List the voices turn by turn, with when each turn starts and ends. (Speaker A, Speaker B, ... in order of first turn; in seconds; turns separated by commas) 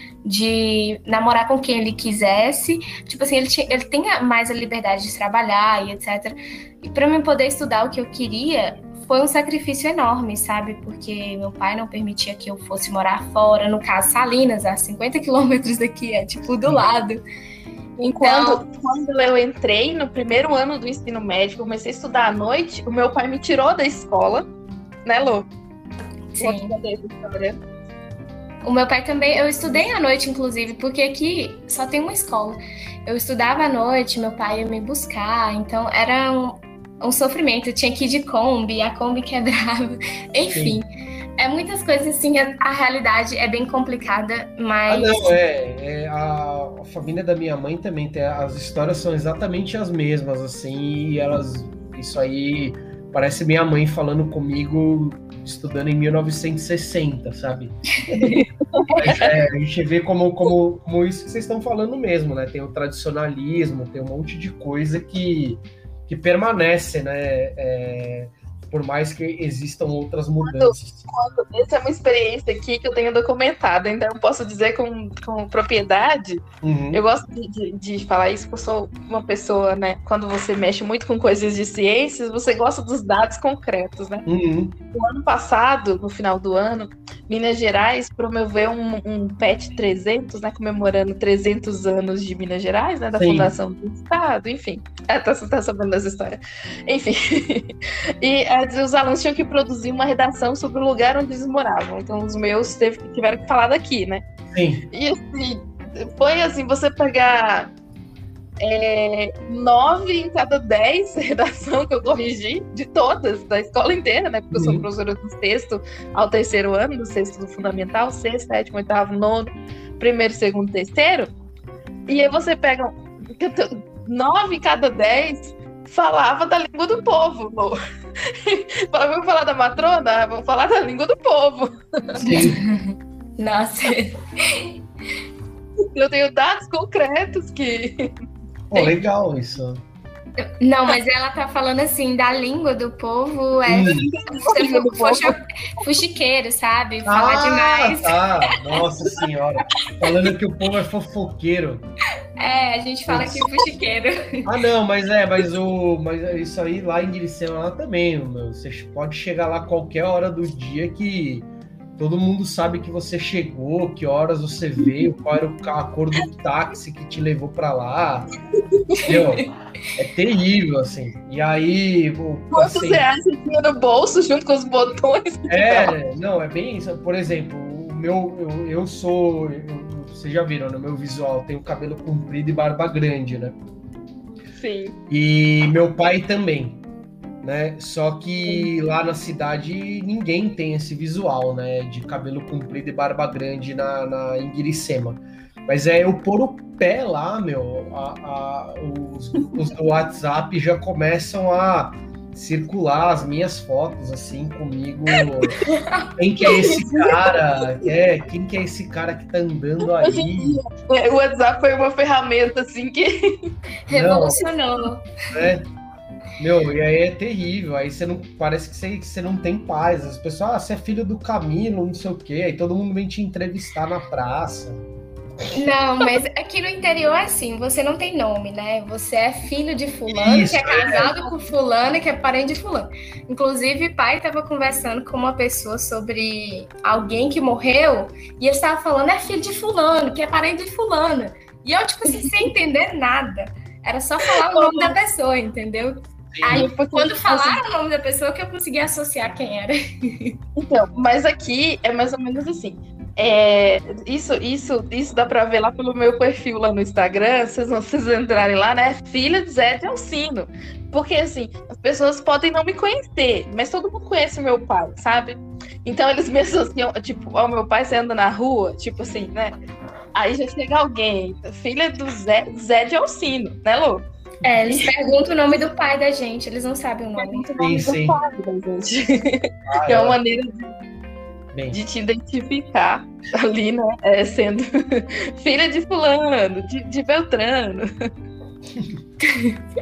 Speaker A: 0.2-17.2, Speaker B: 18.0-24.5, Speaker A: 18.2-18.6, Speaker B: 25.1-25.5, Speaker A: 26.3-26.7, Speaker B: 26.4-27.6, Speaker A: 28.6-40.9, Speaker C: 40.5-40.8, Speaker A: 41.4-45.4, Speaker C: 44.9-58.3, Speaker B: 58.7-59.3, Speaker C: 59.0-71.1, Speaker B: 70.4-84.3, Speaker C: 76.6-77.0, Speaker C: 84.3-84.8, Speaker B: 84.9-104.2, Speaker C: 93.2-93.5, Speaker C: 104.5-104.8, Speaker B: 104.9-107.7, Speaker B: 108.6-121.3, Speaker C: 114.5-114.9, Speaker B: 122.1-132.4, Speaker A: 132.2-134.7, Speaker C: 132.2-132.6, Speaker B: 135.9-138.2, Speaker C: 138.7-139.8, Speaker A: 140.6-148.2, Speaker C: 143.7-144.1, Speaker B: 143.9-145.3, Speaker C: 147.1-151.9, Speaker A: 152.4-154.5, Speaker C: 153.1-153.5, Speaker C: 154.5-168.3, Speaker B: 168.6-169.3, Speaker C: 169.1-173.1, Speaker B: 172.5-175.9, Speaker C: 175.5-183.6, Speaker B: 184.6-185.0, Speaker C: 185.1-186.8, Speaker C: 187.4-205.6, Speaker B: 205.1-205.5, Speaker C: 206.2-210.6, Speaker B: 206.4-207.7, Speaker B: 210.0-213.5, Speaker A: 213.9-215.1, Speaker C: 213.9-214.4, Speaker C: 215.3-215.7, Speaker C: 216.4-224.8, Speaker C: 225.4-225.7, Speaker A: 225.5-250.4, Speaker C: 230.1-231.1, Speaker B: 230.8-231.3, Speaker B: 242.1-242.5, Speaker B: 244.4-245.0, Speaker C: 246.3-246.7, Speaker B: 246.5-247.6, Speaker B: 250.6-269.5, Speaker B: 270.1-274.1, Speaker A: 274.4-277.4, Speaker B: 277.2-280.7, Speaker C: 277.6-278.2, Speaker C: 279.7-280.2, Speaker C: 281.5-281.8, Speaker B: 281.7-288.1, Speaker C: 288.7-289.0, Speaker A: 289.3-289.6